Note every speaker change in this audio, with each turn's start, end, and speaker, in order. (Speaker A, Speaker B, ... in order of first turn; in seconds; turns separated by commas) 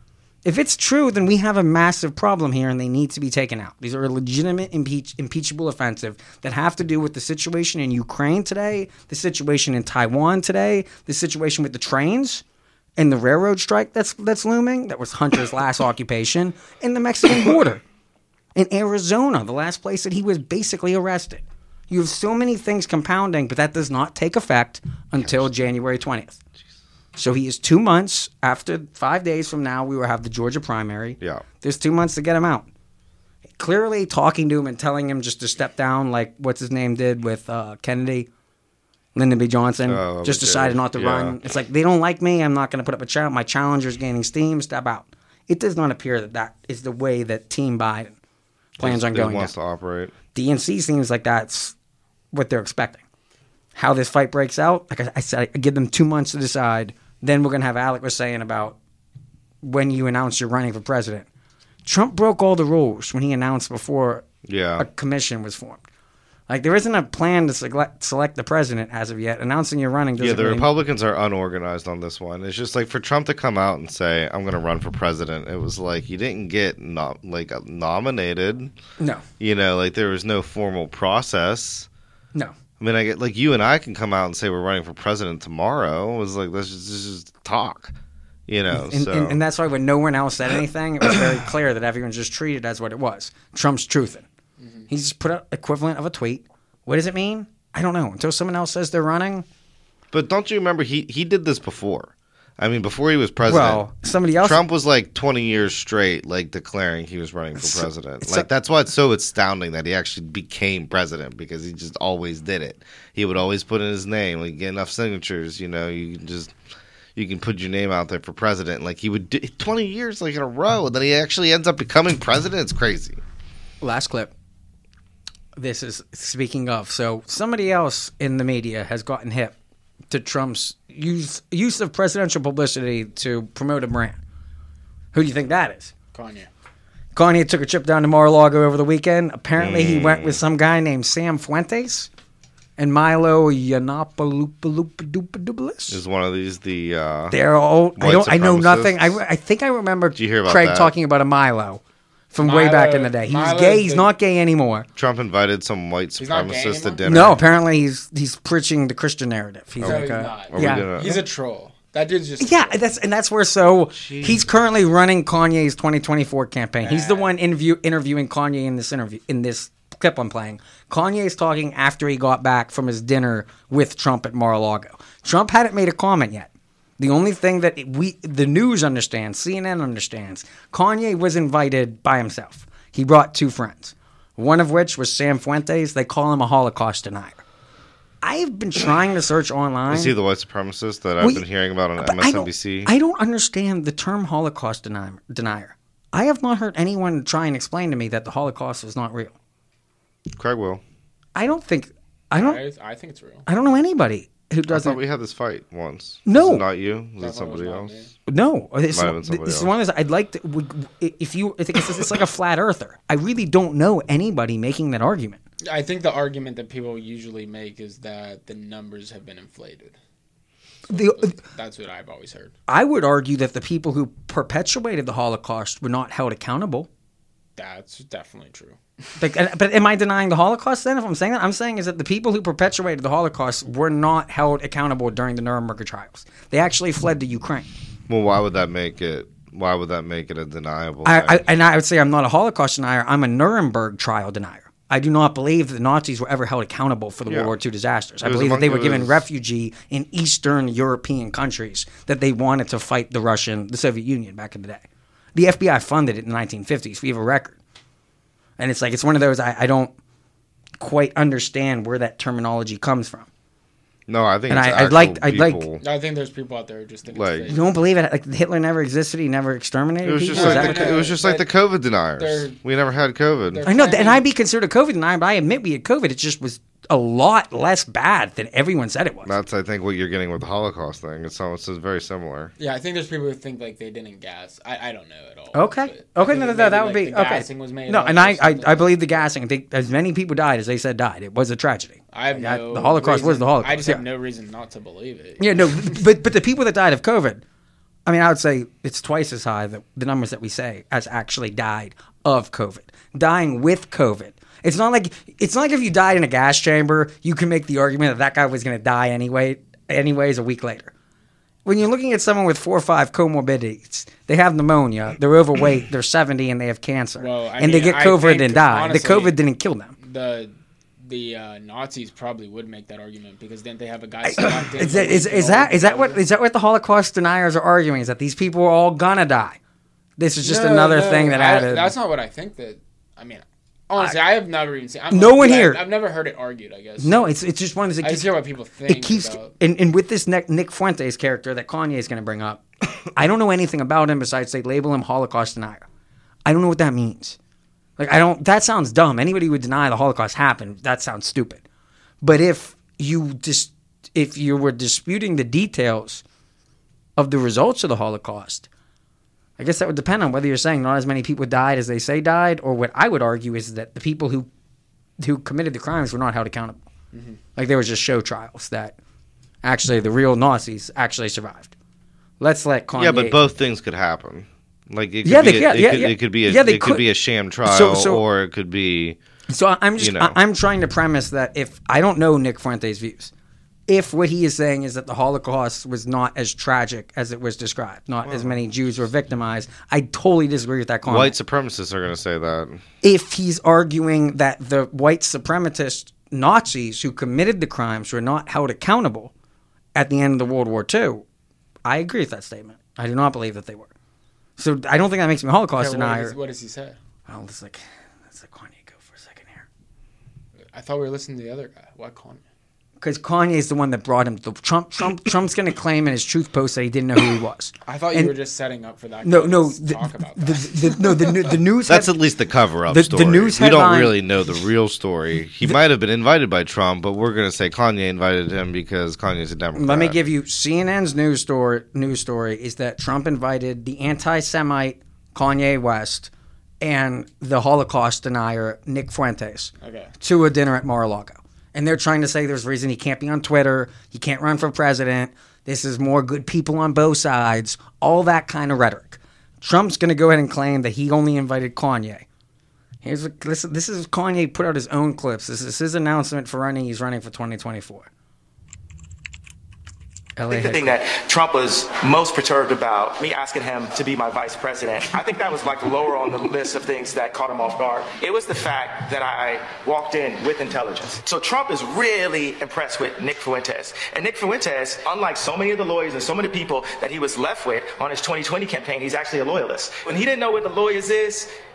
Speaker A: 0.5-12.4, Speaker A: 13.0-17.8, Speaker A: 18.6-26.4, Speaker B: 25.2-25.4, Speaker A: 27.2-32.7, Speaker A: 33.6-38.3, Speaker A: 39.1-48.1, Speaker B: 39.9-41.4, Speaker A: 48.8-49.5, Speaker B: 48.8-50.1, Speaker A: 50.3-51.7, Speaker A: 52.3-53.0, Speaker A: 53.8-58.8, Speaker A: 59.6-61.3, Speaker A: 61.9-64.3, Speaker B: 64.5-64.9, Speaker A: 64.8-65.8, Speaker A: 66.5-70.7, Speaker B: 70.2-78.7, Speaker B: 79.4-81.9, Speaker B: 82.8-87.9, Speaker B: 88.5-89.4, Speaker A: 88.7-94.3, Speaker C: 94.6-94.8, Speaker A: 94.9-99.5, Speaker B: 100.1-103.8, Speaker A: 103.5-104.6, Speaker B: 104.4-116.5, Speaker A: 107.6-108.5, Speaker B: 117.2-123.2, Speaker A: 123.8-124.3, Speaker A: 125.6-129.6, Speaker A: 130.1-134.2, Speaker A: 135.1-135.9, Speaker C: 136.1-136.5, Speaker A: 137.1-142.1, Speaker B: 139.6-140.4, Speaker A: 142.8-146.0, Speaker B: 145.9-147.4, Speaker A: 147.3-151.8, Speaker B: 148.0-149.2, Speaker B: 150.2-150.9, Speaker A: 152.3-154.9, Speaker C: 152.4-154.1, Speaker B: 155.0-157.4, Speaker C: 156.2-157.0, Speaker A: 157.1-161.2, Speaker B: 159.8-161.2, Speaker C: 159.8-162.8, Speaker A: 162.4-187.4, Speaker B: 163.9-164.5, Speaker C: 166.8-167.3, Speaker A: 188.2-190.1, Speaker B: 189.9-192.9, Speaker A: 192.0-199.3, Speaker B: 200.4-200.8, Speaker A: 201.3-202.6, Speaker C: 202.3-203.4, Speaker A: 203.5-205.0, Speaker B: 204.7-208.0, Speaker A: 206.3-206.7, Speaker C: 207.2-208.1, Speaker A: 208.3-215.4, Speaker B: 208.9-209.7, Speaker C: 215.6-220.0, Speaker C: 220.9-222.5, Speaker A: 220.9-221.4, Speaker A: 222.7-226.9, Speaker C: 227.6-228.8, Speaker A: 229.2-237.7, Speaker B: 238.1-241.4, Speaker A: 241.1-257.6, Speaker B: 247.3-247.5, Speaker B: 248.2-249.2, Speaker A: 258.6-259.9, Speaker A: 260.8-263.3, Speaker B: 264.1-265.8, Speaker A: 264.5-265.6, Speaker C: 265.8-267.7, Speaker B: 267.1-267.6, Speaker A: 267.5-271.1, Speaker B: 270.0-273.7, Speaker C: 270.3-271.5, Speaker C: 272.2-272.6, Speaker C: 273.5-274.3, Speaker A: 273.6-279.3, Speaker B: 279.2-282.5, Speaker C: 282.6-289.0, Speaker A: 285.5-294.0, Speaker C: 292.1-296.0, Speaker A: 295.4-297.4, Speaker A: 298.1-310.9, Speaker A: 311.6-319.9, Speaker C: 317.2-319.4, Speaker C: 320.0-326.2, Speaker A: 324.3-329.6, Speaker A: 330.2-331.9, Speaker C: 330.4-337.3, Speaker A: 334.0-334.2, Speaker A: 335.1-335.8, Speaker A: 337.0-345.9, Speaker C: 338.0-339.5, Speaker A: 346.5-347.4, Speaker A: 348.0-351.6, Speaker A: 352.2-356.2, Speaker A: 357.2-358.7, Speaker A: 359.6-364.5, Speaker A: 365.2-366.8, Speaker C: 367.1-367.4, Speaker A: 367.6-369.0, Speaker A: 369.6-371.7, Speaker A: 372.4-373.4, Speaker B: 372.9-379.2, Speaker A: 375.2-377.1, Speaker A: 377.6-378.2, Speaker A: 379.5-383.3, Speaker B: 380.0-380.4, Speaker A: 383.9-391.4, Speaker C: 388.3-388.6, Speaker B: 391.1-392.8, Speaker A: 393.0-399.3, Speaker A: 399.9-401.2, Speaker A: 401.9-403.9, Speaker A: 404.6-406.4, Speaker C: 405.8-407.0, Speaker A: 407.3-409.7, Speaker C: 410.7-412.4, Speaker A: 413.0-418.4, Speaker C: 417.9-421.6, Speaker A: 419.2-422.2, Speaker B: 421.9-430.2, Speaker A: 422.9-424.2, Speaker A: 429.8-436.3, Speaker A: 436.8-452.3, Speaker C: 439.8-440.1, Speaker A: 453.0-458.1, Speaker A: 460.4-461.0, Speaker D: 460.5-481.5